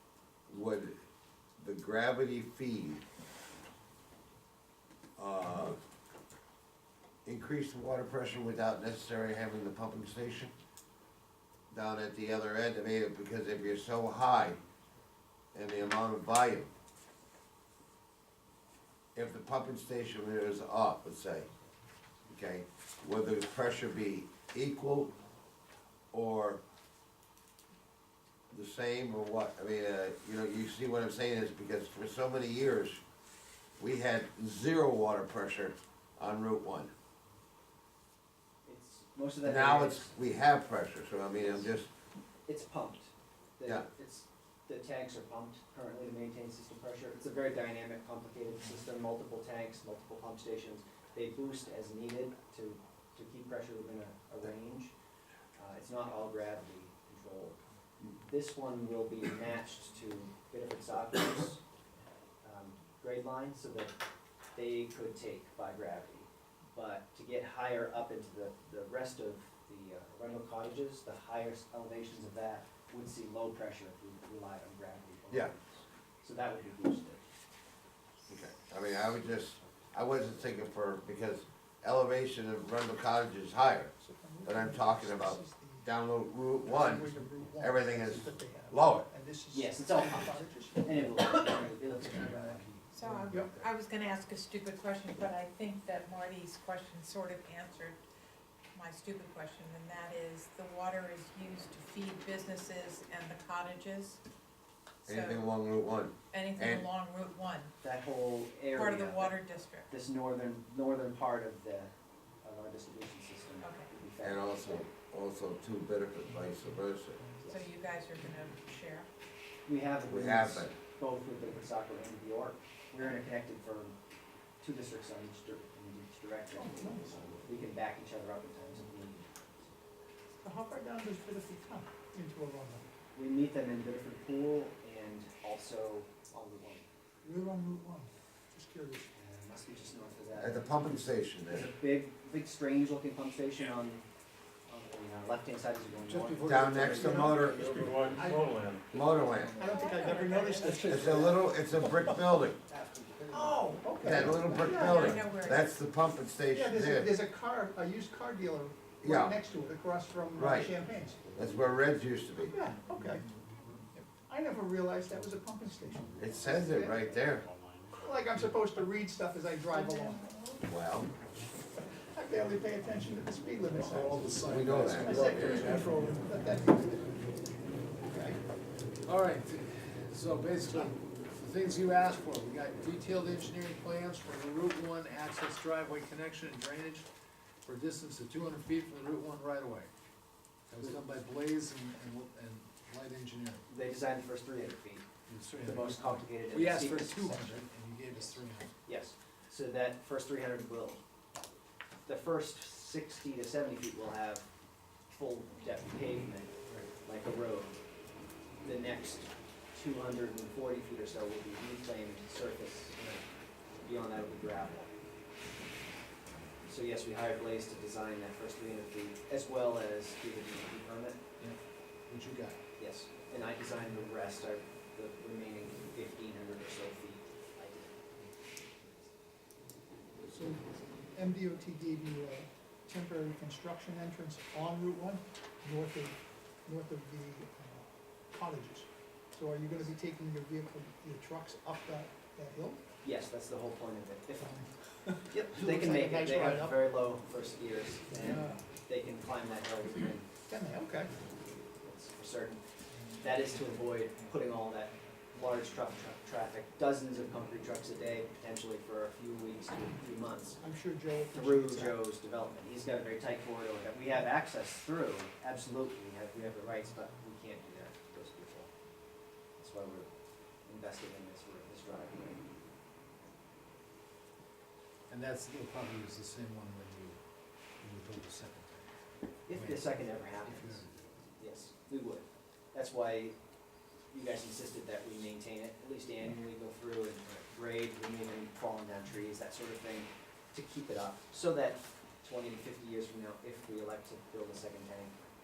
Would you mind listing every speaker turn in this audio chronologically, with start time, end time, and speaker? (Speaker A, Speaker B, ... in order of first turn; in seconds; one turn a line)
Speaker A: 0.5-0.9
Speaker A: 1.6-3.0
Speaker A: 5.2-5.8
Speaker A: 7.2-10.5
Speaker A: 11.7-14.6
Speaker A: 15.5-16.7
Speaker A: 19.1-21.5
Speaker A: 22.3-25.1
Speaker A: 26.1-26.6
Speaker A: 28.5-33.0
Speaker A: 33.8-36.9
Speaker B: 38.6-40.1
Speaker A: 39.4-41.9
Speaker B: 41.4-41.7
Speaker B: 42.5-54.9
Speaker B: 55.5-57.6
Speaker B: 58.2-61.6
Speaker B: 62.4-63.9
Speaker B: 64.5-77.2
Speaker A: 78.3-83.9
Speaker C: 84.0-85.9
Speaker A: 84.4-89.1
Speaker C: 86.6-91.5
Speaker B: 89.5-92.7
Speaker D: 91.8-93.5
Speaker E: 92.9-98.0
Speaker E: 98.7-104.2
Speaker E: 105.0-105.5
Speaker A: 105.0-106.8
Speaker E: 106.3-107.7
Speaker B: 107.8-111.9
Speaker E: 108.7-109.9
Speaker B: 112.4-114.9
Speaker E: 113.6-113.9
Speaker A: 114.2-117.2
Speaker E: 117.5-119.1
Speaker B: 119.7-123.9
Speaker A: 120.1-120.8
Speaker B: 124.6-129.7
Speaker C: 126.5-127.2
Speaker C: 130.4-132.8
Speaker B: 133.1-136.8
Speaker C: 137.2-139.1
Speaker B: 139.1-140.8
Speaker A: 140.4-141.7
Speaker B: 141.5-144.0
Speaker B: 144.7-147.0
Speaker D: 146.1-148.2
Speaker A: 146.4-148.2
Speaker C: 146.9-147.4
Speaker F: 147.0-149.0
Speaker C: 148.1-148.6
Speaker A: 148.9-149.7
Speaker C: 149.6-152.1
Speaker E: 149.6-151.0
Speaker F: 150.6-151.1
Speaker B: 150.7-151.3
Speaker A: 150.7-152.6
Speaker B: 152.7-154.3
Speaker C: 153.3-155.2
Speaker A: 154.0-157.1
Speaker E: 154.6-155.8
Speaker C: 156.5-161.4
Speaker A: 159.0-159.4
Speaker A: 160.3-160.7
Speaker A: 161.3-162.5
Speaker C: 162.4-163.2
Speaker C: 163.9-167.0
Speaker A: 166.2-167.4
Speaker F: 166.2-168.5
Speaker C: 168.0-170.3
Speaker E: 169.7-170.6
Speaker A: 170.6-171.1
Speaker C: 172.1-174.2
Speaker D: 173.7-176.2
Speaker A: 174.4-175.8
Speaker C: 175.0-177.5
Speaker C: 178.0-178.4
Speaker D: 179.0-187.1
Speaker D: 187.6-189.9
Speaker D: 190.7-193.6
Speaker B: 193.7-195.1
Speaker D: 195.3-198.7
Speaker B: 195.6-197.6
Speaker B: 198.8-201.0
Speaker B: 202.1-204.5
Speaker B: 205.1-207.7
Speaker B: 208.6-213.2
Speaker B: 213.8-214.9
Speaker B: 216.6-221.2
Speaker D: 221.4-222.6
Speaker B: 222.8-228.1
Speaker B: 228.8-229.1
Speaker C: 230.2-242.8
Speaker B: 243.0-244.6
Speaker C: 244.4-246.7
Speaker B: 245.3-250.3
Speaker C: 248.2-248.7
Speaker C: 250.5-251.1
Speaker B: 251.8-252.6
Speaker B: 253.2-260.6
Speaker C: 260.6-262.0
Speaker B: 261.3-268.7
Speaker B: 269.6-270.1
Speaker B: 270.6-272.4
Speaker D: 275.1-277.2
Speaker D: 277.8-278.9
Speaker B: 279.5-283.4
Speaker D: 279.5-280.8
Speaker B: 284.1-295.1